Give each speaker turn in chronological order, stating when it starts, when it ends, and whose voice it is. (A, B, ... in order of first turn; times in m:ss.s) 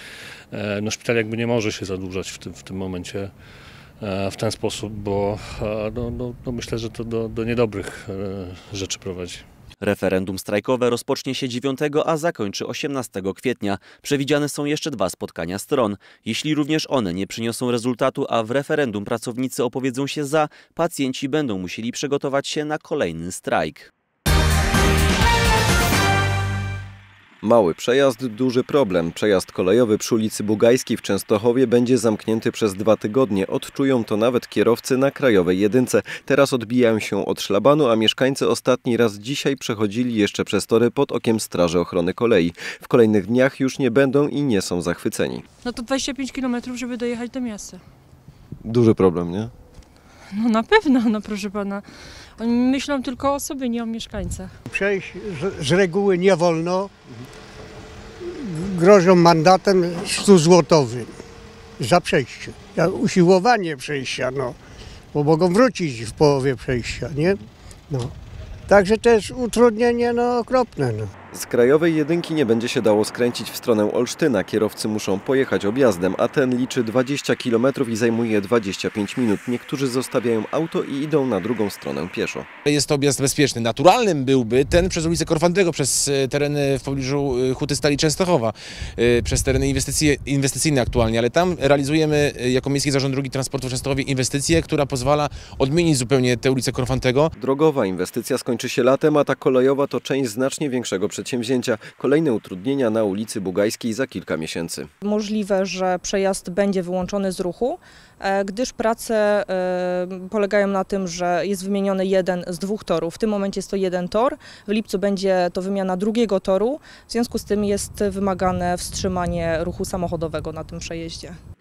0:00.5-0:03.3 A
0:04.0-0:09.4 A
0:09.8-0:23.9 B
0:27.4-0:45.4 C
0:45.6-0:47.8 D
0:48.6-0:49.5 C
0:50.3-0:54.5 D
0:54.7-0:56.9 E
0:58.4-1:01.1 E
1:01.8-1:04.6 E
1:05.1-1:08.1 E
1:08.7-1:11.1 E
1:11.3-1:22.5 C
1:22.6-1:37.3 F
1:37.4-1:44.9 C
1:45.0-2:01.4 G